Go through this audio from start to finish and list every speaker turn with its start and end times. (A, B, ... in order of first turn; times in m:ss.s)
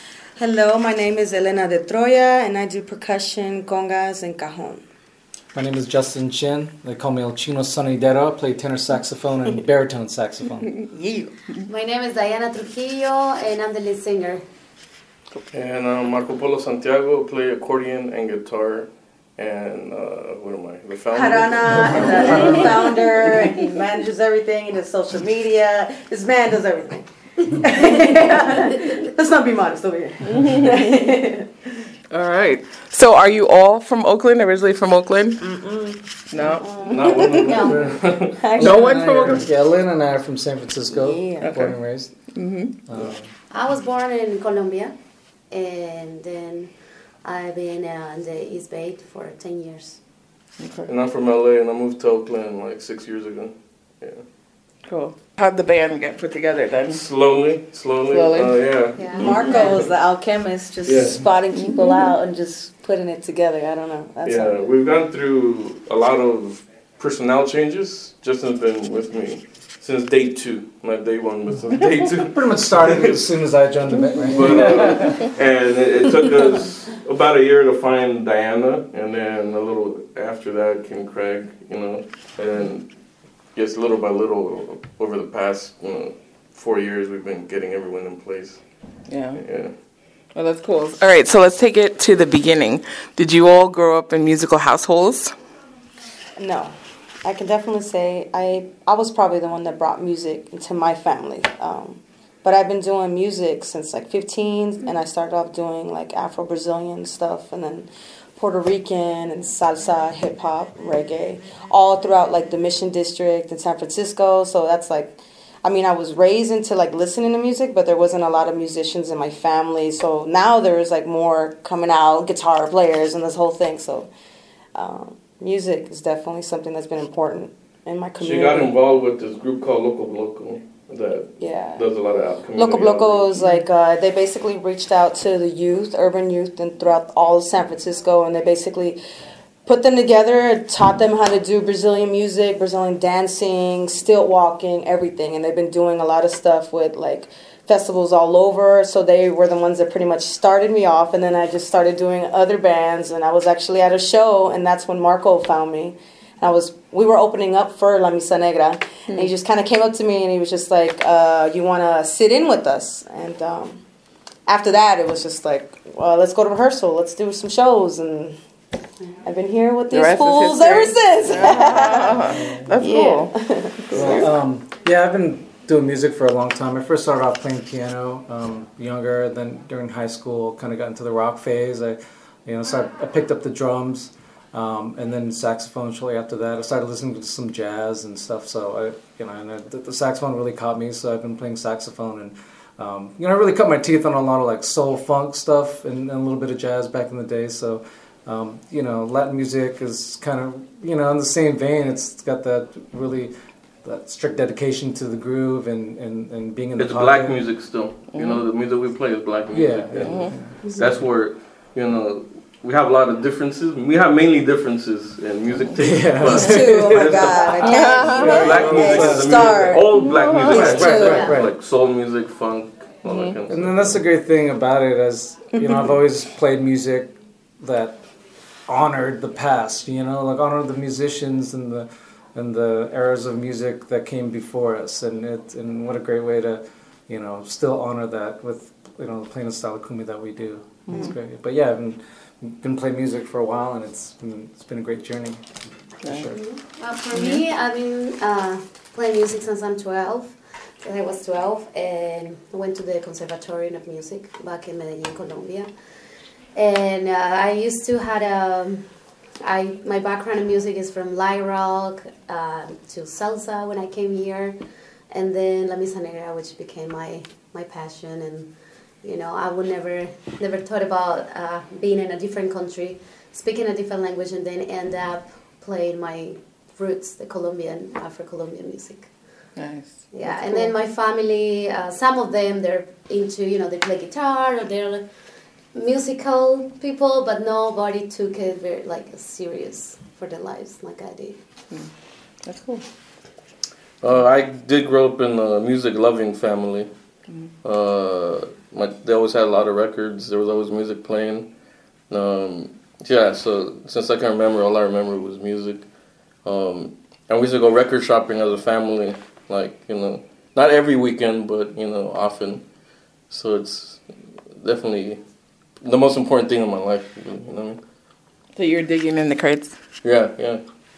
0:00.4-0:04.8 A
0:05.5-0:10.7 B
0:10.8-0:11.5 A
0:11.7-0:14.4 C
0:15.5-0:22.7 D
0:21.1-0:31.5 A
0:30.3-0:30.8 E
0:32.1-0:35.4 E
0:35.4-0:37.7 A
0:36.3-0:37.1 E
0:36.9-0:38.7 D
0:37.3-0:38.0 C
0:37.6-0:38.0 B
0:38.3-0:38.9 A
0:38.6-0:42.1 B
0:38.6-0:39.5 E
0:40.9-0:41.5 A
0:41.4-0:41.8 E
0:42.3-0:42.7 E
0:42.9-0:43.3 B
0:43.5-0:45.0 C
0:45.5-0:50.0 C
0:50.6-0:50.9 E
0:50.9-0:54.2 D
0:54.9-0:57.0 E
0:56.9-0:59.9 D
0:58.1-0:58.6 E
0:58.9-0:59.3 C
0:59.2-1:04.5 A
1:00.9-1:01.2 D
1:04.2-1:13.2 D
1:12.2-1:15.2 B
1:14.3-1:22.9 D
1:23.6-1:28.6 D
1:29.1-1:29.4 E
1:29.3-1:29.7 D
1:30.3-1:35.3 E
1:36.4-1:36.7 A
1:37.2-2:04.1 A
2:04.8-2:08.8 A
2:08.2-2:13.3 D
2:11.4-2:11.8 A
2:12.5-2:19.0 A
2:19.6-2:43.8 A
2:44.5-2:48.3 A
2:49.2-2:54.2 A
2:49.9-2:54.3 E
2:52.3-2:52.7 B
2:53.9-3:27.4 B
3:26.8-3:44.0 D
3:28.1-3:28.4 E
3:29.5-3:30.6 B
3:30.0-3:30.3 E
3:35.8-3:37.3 B
3:36.3-3:39.9 A
3:37.6-3:38.5 E
3:38.2-3:39.4 B
3:39.9-3:41.1 E
3:40.5-3:41.5 B
3:40.5-3:41.2 A
3:41.1-3:41.4 C
3:43.1-3:43.3 E
3:43.5-3:48.0 B
3:48.7-4:05.5 B
4:00.9-4:01.2 E
4:06.1-4:06.4 B
4:06.3-4:15.7 C
4:07.1-4:07.4 E
4:16.6-4:18.9 C
4:19.4-4:24.6 C
4:25.1-4:39.1 C
4:39.6-4:40.2 E
4:40.1-4:45.1 C
4:45.7-4:51.4 C
4:52.4-4:52.8 E
4:54.0-4:56.9 D
4:57.6-5:01.5 D
5:02.1-5:05.8 D
5:06.4-5:12.6 D
5:13.3-5:15.2 D
5:15.8-5:17.8 D
5:18.6-5:19.8 E
5:20.0-5:20.6 D